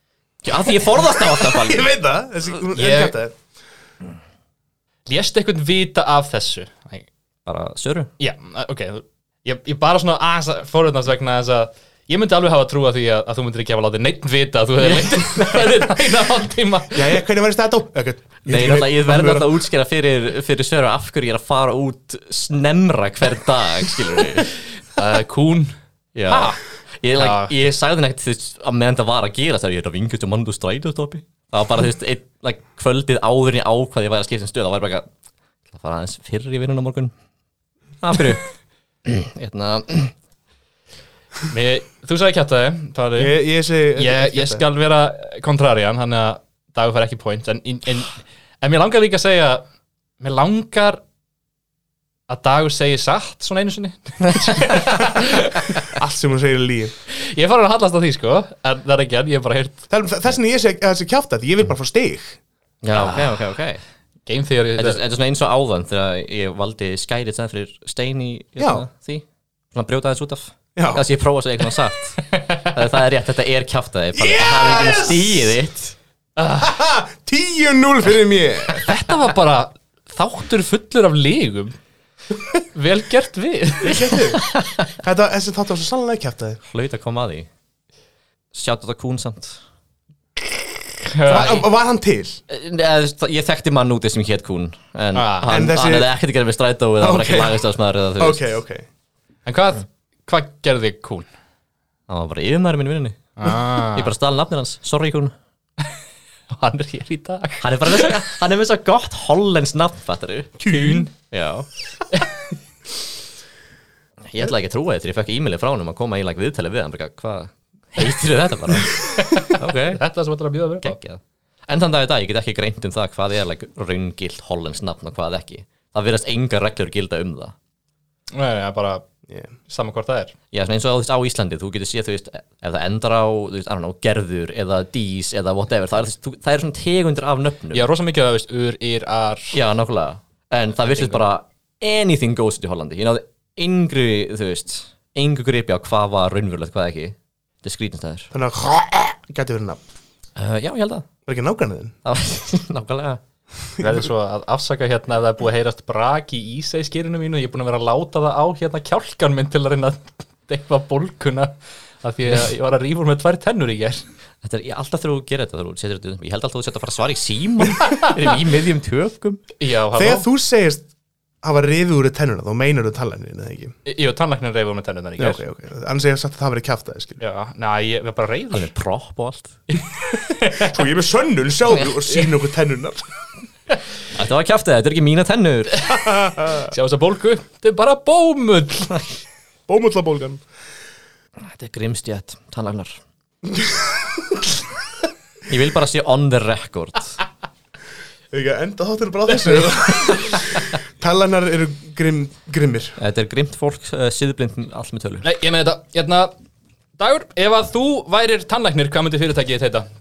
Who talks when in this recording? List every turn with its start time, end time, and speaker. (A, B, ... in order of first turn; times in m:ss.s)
0:00.4-0:01.9 A
0:01.1-0:03.3 B
0:02.7-0:03.2 C
0:05.1-0:07.1 C
0:07.4-0:08.1 A
0:08.2-0:17.2 C
0:14.8-0:15.9 A
0:16.9-0:19.6 B
0:18.4-0:24.5 A
0:24.9-0:25.7 C
0:26.1-0:35.1 A
0:26.3-0:26.6 C
0:27.2-0:27.5 C
0:35.7-0:37.1 A
0:38.0-0:38.5 A
0:39.0-0:40.1 A
0:41.5-0:43.3 C
0:43.2-0:44.6 B
0:44.0-0:49.6 C
0:50.2-0:51.0 C
0:52.3-0:55.9 C
0:55.8-0:56.9 B
0:57.1-0:59.9 C
0:59.9-1:02.4 B
1:02.8-1:03.8 A
1:02.9-1:03.4 C
1:04.2-1:05.0 C
1:04.8-1:16.0 A
1:08.6-1:08.8 B
1:10.8-1:11.0 B
1:14.2-1:15.2 B
1:16.4-1:16.7 C
1:16.5-1:18.9 B
1:18.8-1:21.8 C
1:22.6-1:24.2 C
1:23.8-1:26.6 B
1:24.4-1:24.8 A
1:26.7-1:27.5 A
1:28.5-1:29.6 A
1:31.0-1:31.7 C
1:31.3-1:32.4 B
1:32.5-1:38.4 A
1:35.1-1:35.6 C
1:35.5-1:36.1 B
1:37.0-1:38.8 B
1:39.4-1:41.3 C
1:42.1-1:43.3 A
1:43.4-1:44.1 C
1:43.8-1:45.3 A
1:46.5-1:48.2 C
1:47.6-1:51.6 A
1:50.6-1:51.1 B
1:50.7-1:51.0 C
1:54.2-2:00.0 A
1:58.9-2:01.0 C
2:00.8-2:07.5 A
2:08.3-2:09.0 C
2:09.7-2:10.3 C
2:10.5-2:17.9 A
2:17.7-2:19.6 C
2:19.5-2:28.3 A
2:20.8-2:21.2 C
2:28.3-2:29.8 B
2:30.4-2:31.1 A
2:31.2-2:32.0 B
2:32.0-2:33.2 A
2:33.8-2:34.0 B
2:33.8-2:44.0 C
2:44.4-2:49.4 A
2:47.8-2:48.2 C
2:49.6-2:50.3 C
2:49.9-2:50.9 B
2:51.4-2:53.7 B
2:53.8-2:55.4 C
2:55.2-2:57.2 B
2:57.2-2:58.7 C
2:58.5-2:59.6 A
2:59.7-3:00.8 C
3:00.5-3:03.0 B
3:04.1-3:05.8 A
3:06.2-3:06.7 B
3:06.5-3:09.0 C
3:09.7-3:10.4 B
3:11.4-3:13.0 A
3:13.4-3:14.4 B
3:15.5-3:17.2 A
3:18.3-3:23.0 B
3:23.0-3:25.3 A
3:25.2-3:26.3 C
3:27.0-3:29.9 C